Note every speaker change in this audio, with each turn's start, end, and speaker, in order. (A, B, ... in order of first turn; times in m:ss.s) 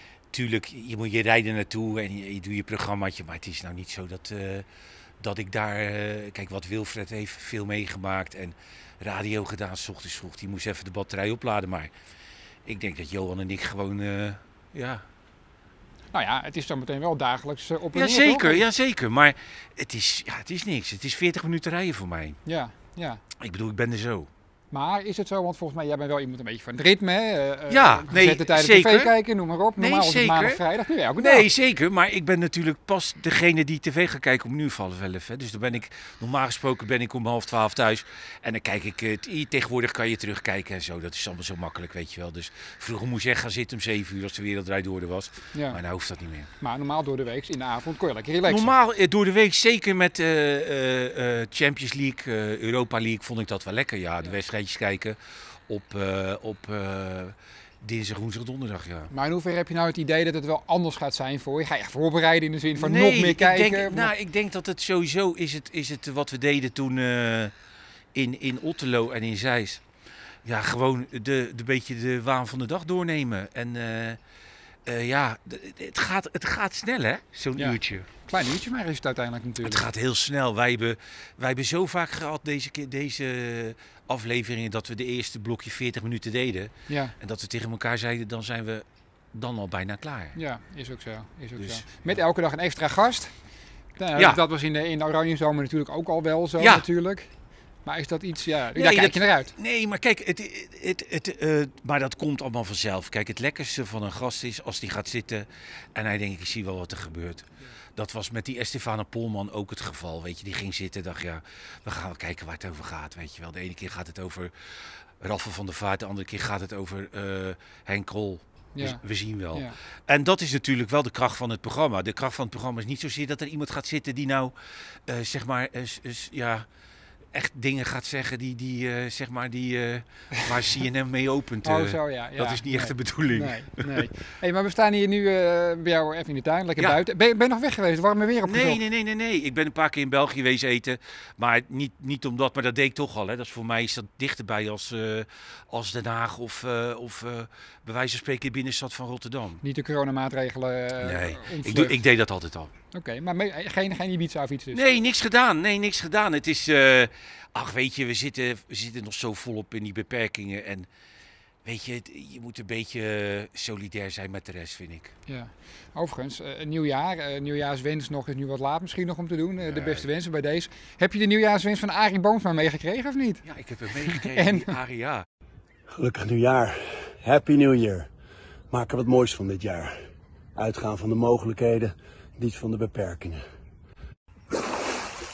0:00.3-0:04.6 A
0:05.2-0:11.9 A
0:12.6-0:15.0 A
0:16.1-0:18.6 B
0:17.9-0:22.4 A
0:22.4-0:23.2 B
0:23.4-0:24.3 A
0:24.7-0:31.5 B
0:27.7-0:29.1 A
0:29.8-0:30.6 A
0:31.2-0:46.5 A
0:45.5-0:45.8 B
0:46.6-0:48.7 B
0:48.4-0:59.1 A
0:59.1-1:04.1 B
1:02.8-1:07.5 A
1:08.1-1:09.8 A
1:10.4-1:14.2 A
1:14.8-1:18.1 A
1:17.6-1:19.8 B
1:19.6-1:30.4 A
1:26.9-1:27.1 B
1:30.3-1:33.3 B
1:31.6-1:32.1 A
1:34.0-1:37.3 B
1:36.6-1:36.8 A
1:37.8-1:39.5 B
1:38.7-1:54.5 A
1:55.2-2:04.5 A
1:58.8-1:59.0 B
2:05.1-2:06.6 A
2:07.3-2:14.1 A
2:11.6-2:18.8 B
2:18.4-2:29.6 A
2:29.6-2:32.0 B
2:31.0-2:32.7 A
2:32.9-2:34.8 B
2:34.7-2:40.9 A
2:41.6-2:45.1 A
2:45.3-2:53.4 B
2:49.6-2:50.0 A
2:53.4-2:55.2 A
2:54.0-2:54.8 B
2:55.9-2:58.1 C
2:58.7-3:00.0 C
3:00.5-3:03.4 C